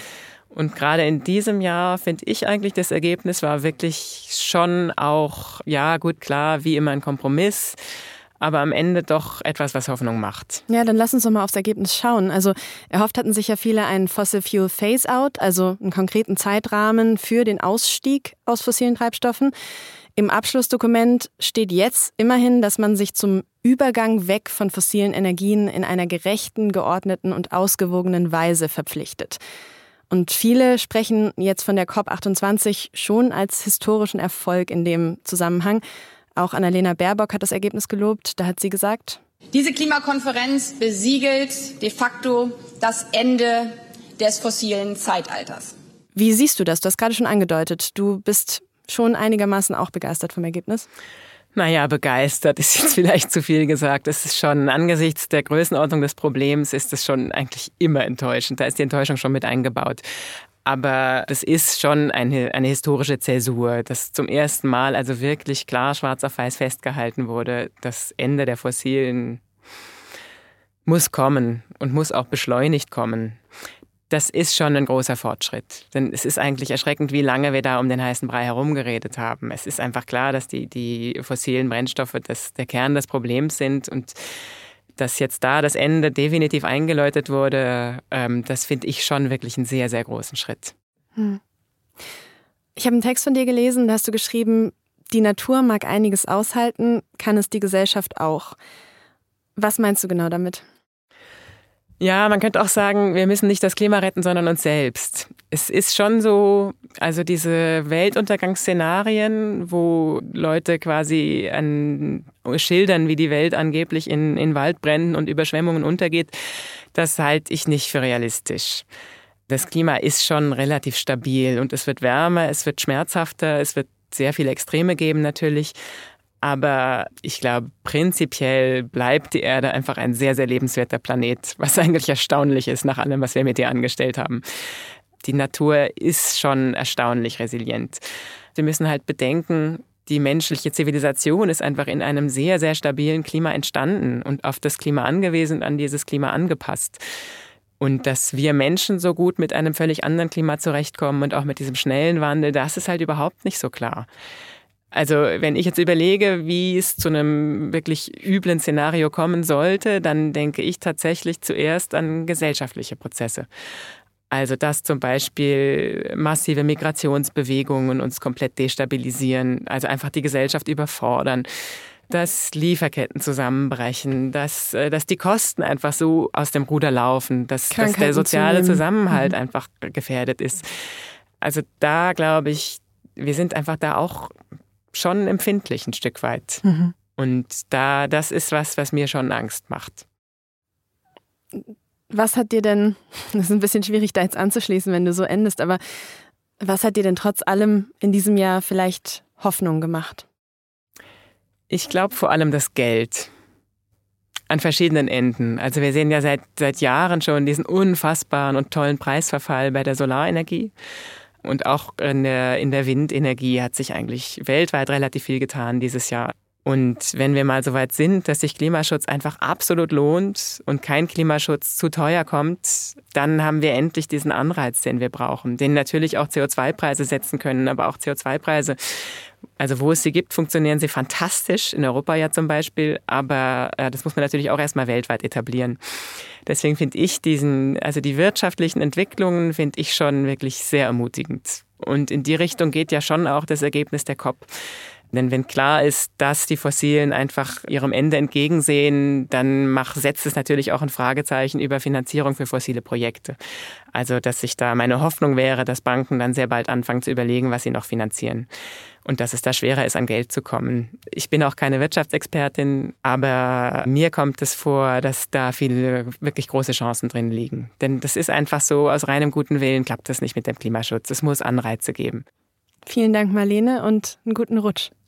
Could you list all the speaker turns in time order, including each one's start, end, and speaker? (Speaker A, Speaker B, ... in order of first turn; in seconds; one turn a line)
Speaker A: 0.5-7.8
Speaker A: 8.4-10.6
Speaker B: 10.7-19.5
Speaker B: 20.2-29.4
Speaker B: 30.1-35.8
Speaker B: 36.4-39.2
Speaker C: 39.5-45.7
Speaker B: 46.1-50.9
Speaker A: 51.5-60.0
Speaker A: 60.6-69.4
Speaker A: 70.9-73.4
Speaker A: 74.1-84.2
Speaker A: 85.0-90.7
Speaker B: 92.8-98.6
Speaker B: 99.6-100.6
Speaker A: 102.0-116.4
Speaker A: 116.9-118.8
Speaker A: 119.5-125.8
Speaker A: 126.4-134.4
Speaker A: 135.2-138.0
Speaker A: 138.6-147.0
Speaker A: 147.8-154.1
Speaker A: 154.9-163.5
Speaker A: 164.3-171.5
Speaker A: 172.1-180.8
Speaker B: 177.7-179.3
Speaker A: 181.4-184.3
Speaker A: 184.9-186.6
Speaker B: 186.6-186.9
Speaker A: 187.2-190.0
Speaker B: 192.1-195.8
Speaker B: 196.6-200.3
Speaker A: 201.7-203.3
Speaker A: 204.5-210.7
Speaker A: 211.4-228.8
Speaker A: 229.6-235.8
Speaker A: 236.5-244.5
Speaker A: 245.1-253.4
Speaker A: 253.9-258.5
Speaker A: 259.1-272.2
Speaker B: 272.9-274.9